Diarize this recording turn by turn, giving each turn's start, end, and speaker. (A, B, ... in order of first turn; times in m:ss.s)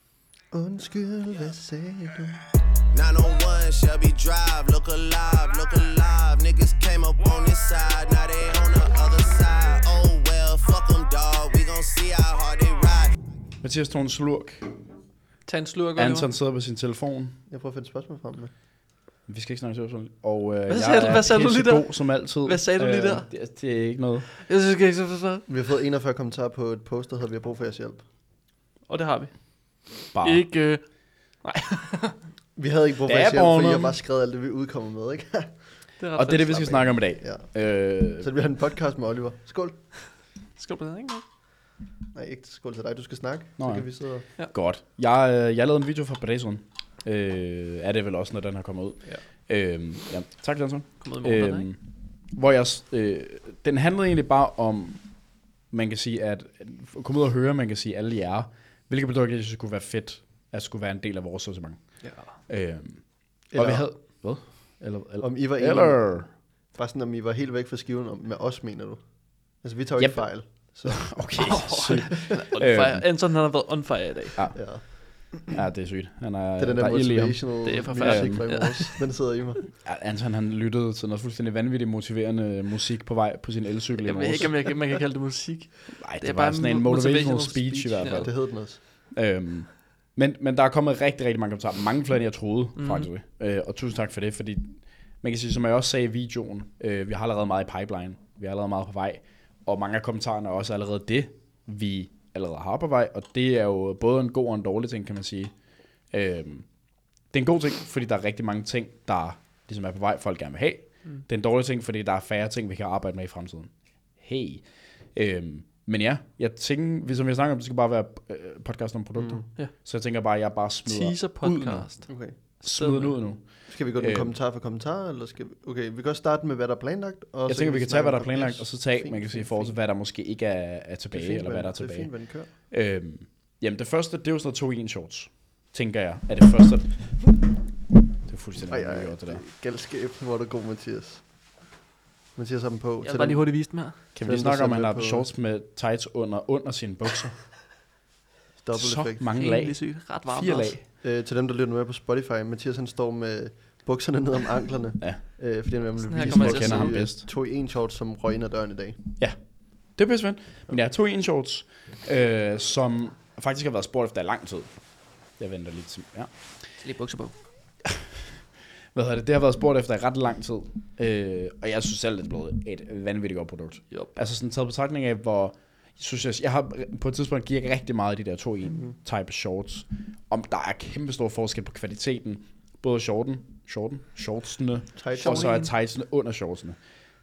0:00.5-0:02.4 A
0:02.9-0:13.1 B
0:13.6-0:14.7 C
0:15.4-0:16.3 D
0:16.0-0:17.4 C
0:17.5-0:18.5 A
0:19.3-0:24.3 C
0:20.7-0:23.3 D
0:24.4-0:25.5 D
0:25.5-0:28.0 A
0:28.9-0:32.2 D
0:30.1-0:30.5 C
0:32.6-0:35.9 A
0:33.0-0:34.0 C
0:36.0-0:36.9 D
0:36.2-0:38.3 C
0:37.1-0:40.0 A
0:40.6-0:41.2 D
0:42.1-0:44.3 A
0:43.6-0:55.1 C
0:51.0-0:51.7 D
0:55.7-1:06.3 C
1:02.0-1:02.4 D
1:03.5-1:04.4 A
1:05.2-1:11.7 A
1:10.0-1:13.1 C
1:11.4-1:14.4 D
1:14.3-1:18.5 C
1:14.5-1:14.9 A
1:16.6-1:19.7 A
1:17.6-1:19.0 D
1:19.8-1:24.7 C
1:24.0-1:28.3 D
1:25.9-1:28.5 C
1:28.0-1:28.8 A
1:29.1-1:45.5 C
1:32.8-1:33.1 D
1:46.1-1:46.7 C
1:47.3-2:01.9 C
1:59.2-1:59.5 A
2:00.8-2:03.2 D
2:02.0-2:02.4 A
2:02.6-2:04.4 C
2:03.6-2:09.8 A
2:07.5-2:17.3 C
2:11.1-2:12.5 A
2:18.2-2:19.4 C
2:18.7-2:21.2 A
2:22.3-2:25.3 A
2:23.0-2:24.0 D
2:24.1-2:27.4 C
2:28.6-2:29.3 A
2:28.7-2:30.8 C
2:29.3-2:30.8 D
2:31.0-2:39.0 A
2:36.0-2:37.0 D
2:36.3-2:37.2 C
2:39.9-2:44.8 C
2:45.3-2:46.4 C
2:46.8-2:47.4 D
2:47.8-2:48.3 C
2:48.9-3:06.8 C
2:53.9-2:54.2 D
3:05.0-3:05.6 A
3:05.1-3:05.7 D